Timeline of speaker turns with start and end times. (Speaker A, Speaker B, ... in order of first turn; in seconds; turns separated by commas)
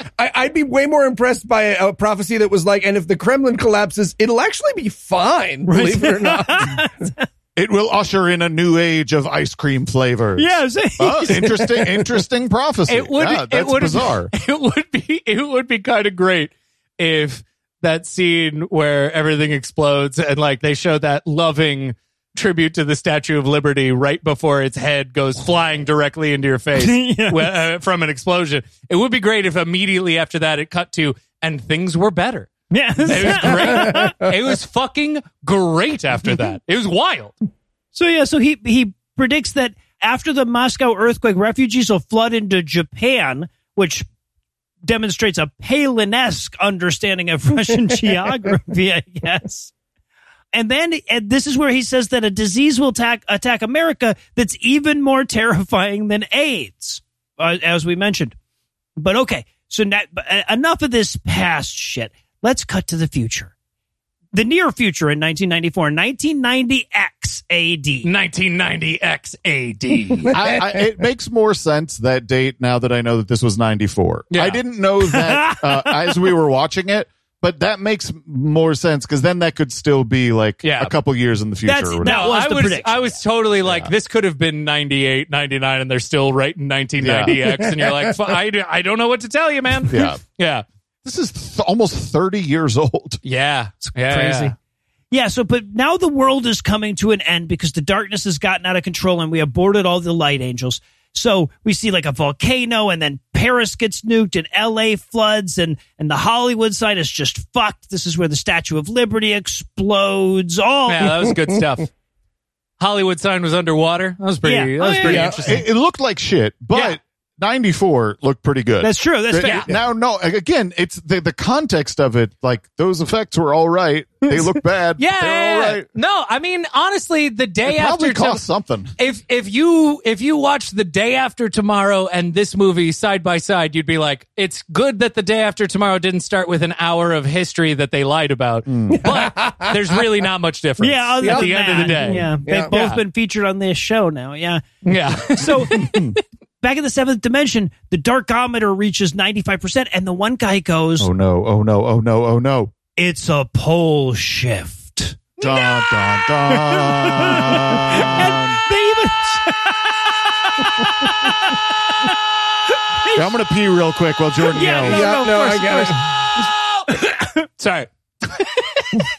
Speaker A: 0.2-6.9, Speaker B: 5.7-7.3, Speaker C: 7.5-14.3, Speaker B: 10.3-12.1, Speaker D: 12.9-32.5, Speaker B: 26.8-27.6, Speaker B: 32.7-34.3, Speaker D: 33.0-37.3, Speaker A: 33.2-34.1, Speaker B: 37.9-44.0, Speaker B: 44.8-49.7, Speaker B: 50.5-58.3, Speaker B: 59.0-63.5, Speaker B: 64.3-68.1, Speaker D: 68.0-70.3, Speaker A: 70.3-70.9, Speaker C: 70.3-82.2, Speaker D: 74.3-74.6, Speaker B: 75.1-76.0, Speaker D: 80.6-80.9, Speaker B: 81.6-83.2, Speaker D: 82.0-90.6, Speaker C: 83.6-83.9, Speaker C: 87.0-87.4, Speaker A: 87.4-88.3, Speaker C: 89.9-90.2, Speaker C: 91.0-93.2, Speaker D: 93.2-94.5, Speaker B: 94.0-94.5, Speaker B: 95.1-111.2, Speaker D: 110.9-111.9, Speaker D: 112.8-115.6, Speaker B: 114.4-115.3, Speaker A: 115.0-115.5, Speaker C: 115.3-125.8, Speaker B: 118.8-119.7, Speaker D: 119.4-119.7, Speaker D: 125.0-128.4, Speaker C: 127.7-128.9, Speaker D: 129.0-143.0, Speaker C: 138.7-139.1, Speaker A: 139.0-139.9, Speaker B: 140.8-144.6, Speaker A: 141.2-142.8, Speaker D: 144.8-146.2, Speaker B: 145.3-145.9, Speaker C: 145.8-146.1, Speaker B: 146.6-151.1, Speaker C: 151.0-152.7, Speaker B: 152.9-162.1, Speaker C: 155.4-158.6, Speaker C: 163.1-165.1, Speaker B: 164.5-167.4, Speaker A: 164.8-166.0, Speaker D: 167.6-169.1